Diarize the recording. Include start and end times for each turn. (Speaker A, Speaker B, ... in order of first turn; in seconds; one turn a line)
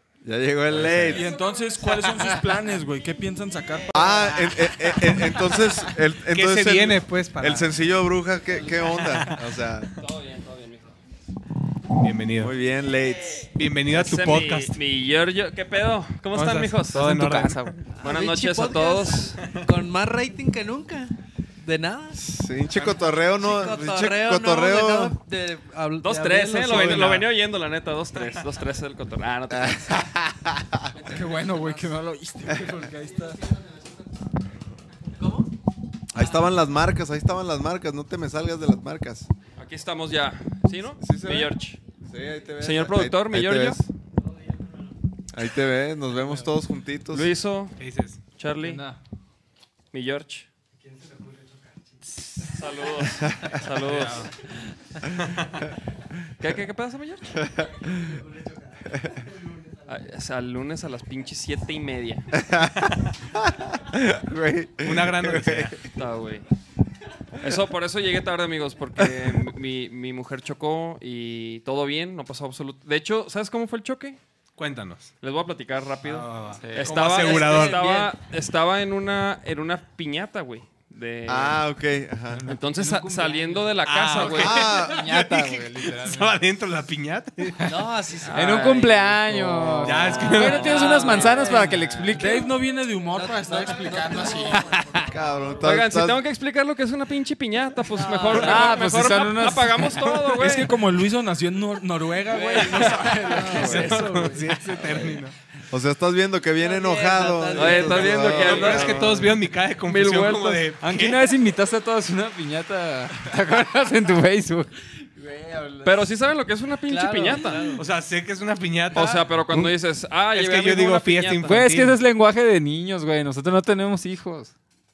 Speaker A: 0.2-1.3
Speaker B: 0.8-5.9
Speaker C: 0.8-1.1
Speaker A: 3.9-9.9
Speaker C: 6.3-7.8
Speaker D: 10.0-10.9
Speaker C: 12.0-12.6
Speaker A: 12.4-13.5
Speaker C: 13.5-14.8
Speaker D: 13.9-17.1
Speaker C: 16.3-17.9
Speaker E: 16.9-17.9
Speaker F: 18.0-22.3
Speaker D: 18.0-19.4
Speaker A: 22.1-25.2
Speaker F: 23.2-27.2
Speaker D: 26.0-30.1
Speaker A: 29.5-30.9
Speaker F: 30.9-31.9
Speaker B: 31.0-33.5
Speaker F: 35.2-35.5
Speaker A: 36.1-39.3
Speaker D: 39.6-41.8
Speaker A: 41.0-43.8
Speaker D: 42.6-43.9
Speaker A: 45.3-47.3
Speaker D: 47.1-48.9
Speaker C: 47.8-48.2
Speaker E: 48.6-49.0
Speaker D: 49.9-50.5
Speaker D: 52.3-54.3
Speaker A: 53.2-53.6
Speaker E: 53.9-54.3
Speaker C: 53.9-54.3
Speaker D: 56.4-57.4
Speaker A: 57.4-58.2
Speaker A: 58.9-59.2
Speaker D: 59.9-62.3
Speaker A: 62.3-65.8
Speaker C: 64.8-65.9
Speaker D: 65.9-66.5
Speaker D: 67.4-74.2
Speaker A: 69.0-69.3
Speaker C: 74.6-75.1
Speaker D: 75.2-81.7
Speaker C: 76.0-78.0
Speaker E: 76.6-77.0
Speaker F: 77.0-78.2
Speaker A: 81.3-82.5
Speaker E: 82.3-86.4
Speaker D: 82.5-84.7
Speaker C: 83.8-87.9
Speaker A: 84.2-85.2
Speaker F: 87.6-92.2
Speaker D: 88.3-88.7
Speaker E: 88.3-92.5
Speaker C: 89.8-91.3
Speaker B: 91.2-95.6
Speaker F: 93.1-95.1
Speaker E: 94.5-95.0
Speaker A: 95.1-96.2
Speaker D: 95.6-100.8
Speaker F: 97.9-98.9
Speaker E: 98.3-100.4
Speaker B: 100.3-105.2
Speaker F: 102.4-104.0
Speaker D: 102.5-103.1
Speaker C: 103.4-105.3
Speaker A: 103.5-104.0
Speaker A: 105.7-109.4
Speaker F: 106.6-108.8
Speaker D: 107.5-109.2
Speaker C: 108.2-111.3
Speaker D: 109.9-110.7
Speaker E: 110.8-114.7
Speaker B: 115.0-116.1
Speaker D: 115.8-117.8
Speaker F: 116.9-117.8
Speaker C: 117.8-119.7
Speaker D: 118.9-121.6
Speaker C: 120.3-122.0
Speaker E: 121.4-124.5